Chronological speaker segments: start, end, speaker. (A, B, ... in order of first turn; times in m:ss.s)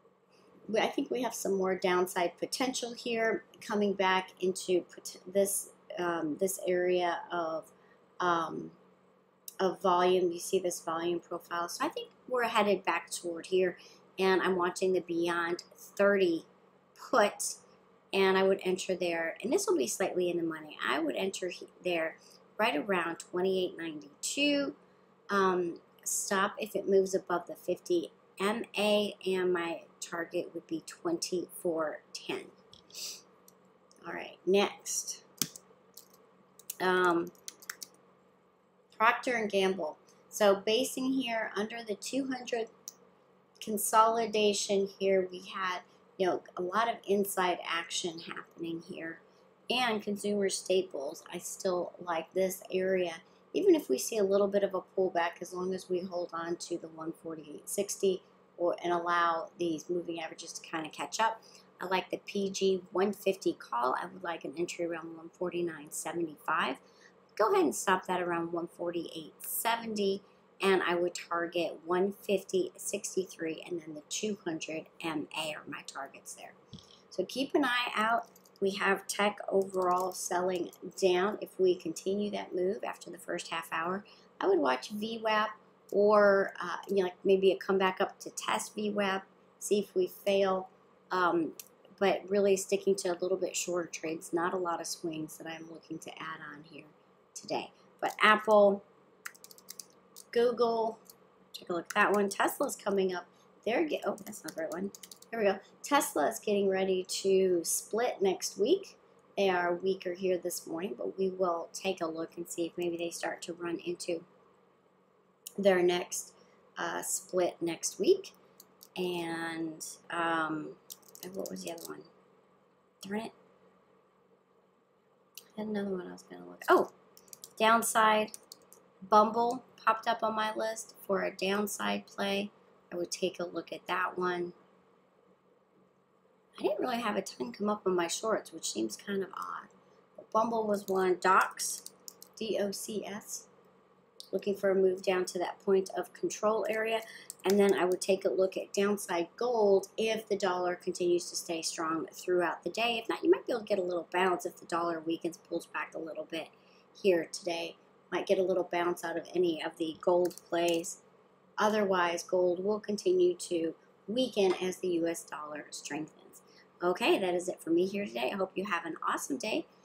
0:00.7-0:08.8 A
0:09.6-0:17.6 A
0:18.1-0:24.8 A
0:25.3-0:32.6 A
0:34.0-0:35.2 A
0:36.8-0:37.3 A
0:38.9-0:42.7 A
0:43.6-1:06.8 A
1:07.4-1:16.6 A
1:17.1-1:38.8 A
1:40.3-1:41.0 A
1:41.5-1:54.3 A
1:55.6-1:58.4 A
1:59.0-2:02.1 A
2:03.0-2:03.3 A
2:05.6-2:06.9 A
2:07.6-2:08.3 A
2:09.1-2:14.6 A
2:16.6-2:23.5 A
2:24.3-2:41.0 A
2:41.6-2:49.7 A